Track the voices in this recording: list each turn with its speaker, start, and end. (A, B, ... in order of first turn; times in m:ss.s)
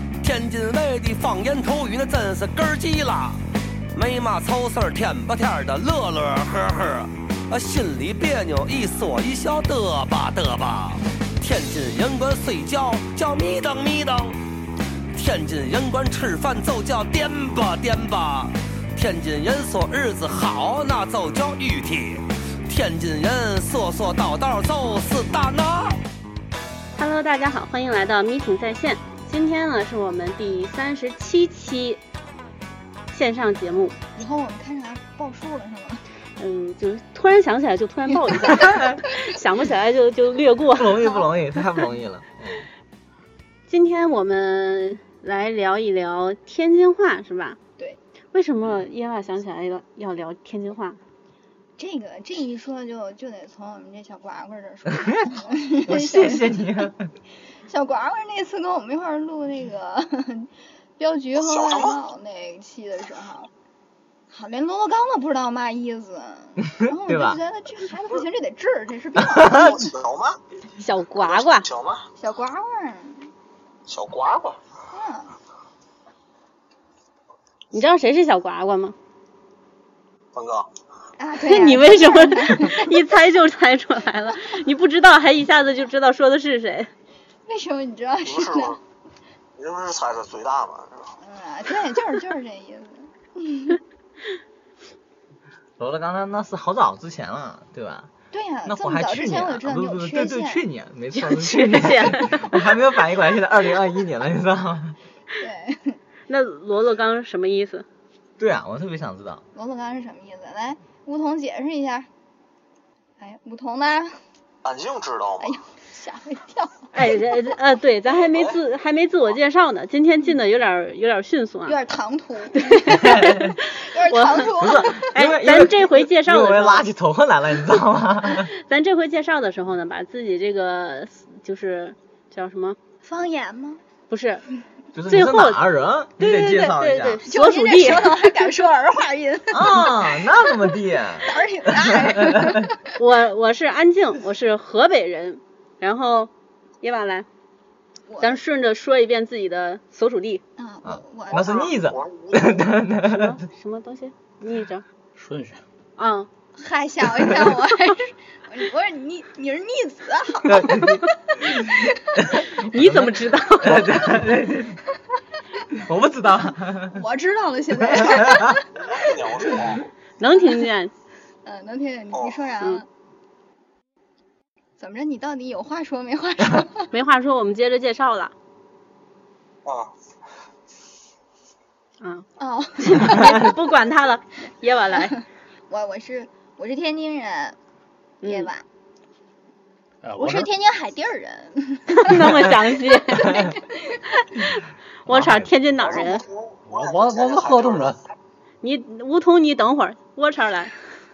0:00.2-0:03.4 A
0:03.9-0:14.4 A
0:15.1-0:26.0 A
0:27.0-0:32.0 B
0:33.1-0:34.0 B
0:34.2-0:36.0 C
0:36.4-0:41.2 B
0:40.8-0:42.7 D
0:43.7-0:47.6 B
0:48.3-0:51.0 B
0:51.8-0:56.9 C
0:55.0-0:55.3 D
0:55.8-0:57.1 D
0:57.7-1:03.5 C
1:01.4-1:02.0 E
1:04.3-1:09.8 C
1:06.7-1:07.4 D
1:09.3-1:09.8 D
1:09.3-1:10.4 E
1:10.8-1:11.7 B
1:11.2-1:12.1 E
1:12.2-1:13.3 C
1:13.9-1:14.6 E
1:14.9-1:15.3 C
1:17.7-1:19.0 B
1:20.4-1:20.7 E
1:21.2-1:23.0 C
1:21.4-1:26.9 B
1:27.5-1:28.8 C
1:28.2-1:28.8 E
1:29.6-1:31.1 E
1:31.2-1:33.8 C
1:35.8-1:38.1 D
1:38.3-1:40.6 C
1:38.7-1:45.0 D
1:41.2-1:42.4 B
1:45.4-1:46.0 C
1:46.3-1:47.8 B
1:48.4-1:49.4 D
1:49.6-1:52.1 C
1:53.2-1:54.1 C
1:54.6-1:55.6 E
1:55.4-1:56.9 C
1:56.9-2:01.8 B
1:58.3-1:58.6 E
2:01.7-2:05.0 C
2:02.6-2:06.8 B
2:02.9-2:03.5 D
2:04.6-2:08.5 D
2:08.4-2:12.8 B
2:13.0-2:13.8 C
2:14.1-2:14.4 B
2:15.0-2:17.2 D
2:15.1-2:15.6 B
2:16.2-2:18.5 B
2:17.2-2:20.7 C
2:19.5-2:22.7 D
2:21.2-2:22.9 C
2:23.0-2:27.3 B
2:28.1-2:28.4 C
2:28.2-2:30.4 B
2:30.6-2:31.8 C
2:30.8-2:33.4 D
2:31.3-2:32.8 E
2:33.0-2:34.9 B
2:35.2-2:35.6 F
2:36.0-2:36.3 B
2:36.6-2:42.2 C
2:40.4-2:41.7 D
2:42.3-2:44.8 D
2:42.5-2:44.1 B
2:45.7-2:47.0 D
2:46.9-2:48.7 C
2:47.8-2:48.6 D
2:48.7-2:49.8 E
2:50.2-2:50.9 B
2:51.4-2:52.9 C
2:52.1-2:52.5 E
2:54.8-2:56.9 C
2:56.9-2:58.3 B
2:59.6-2:59.9 E
3:02.0-3:02.3 B
3:02.4-3:03.6 C
3:02.8-3:05.2 B
3:05.0-3:07.6 C
3:08.2-3:08.5 B
3:08.2-3:08.6 C
3:10.0-3:10.5 F
3:10.2-3:12.6 C
3:12.0-3:13.6 B
3:13.2-3:14.3 C
3:15.1-3:15.6 D
3:15.1-3:16.3 B
3:15.8-3:17.9 E
3:16.7-3:18.0 F
3:18.6-3:20.7 B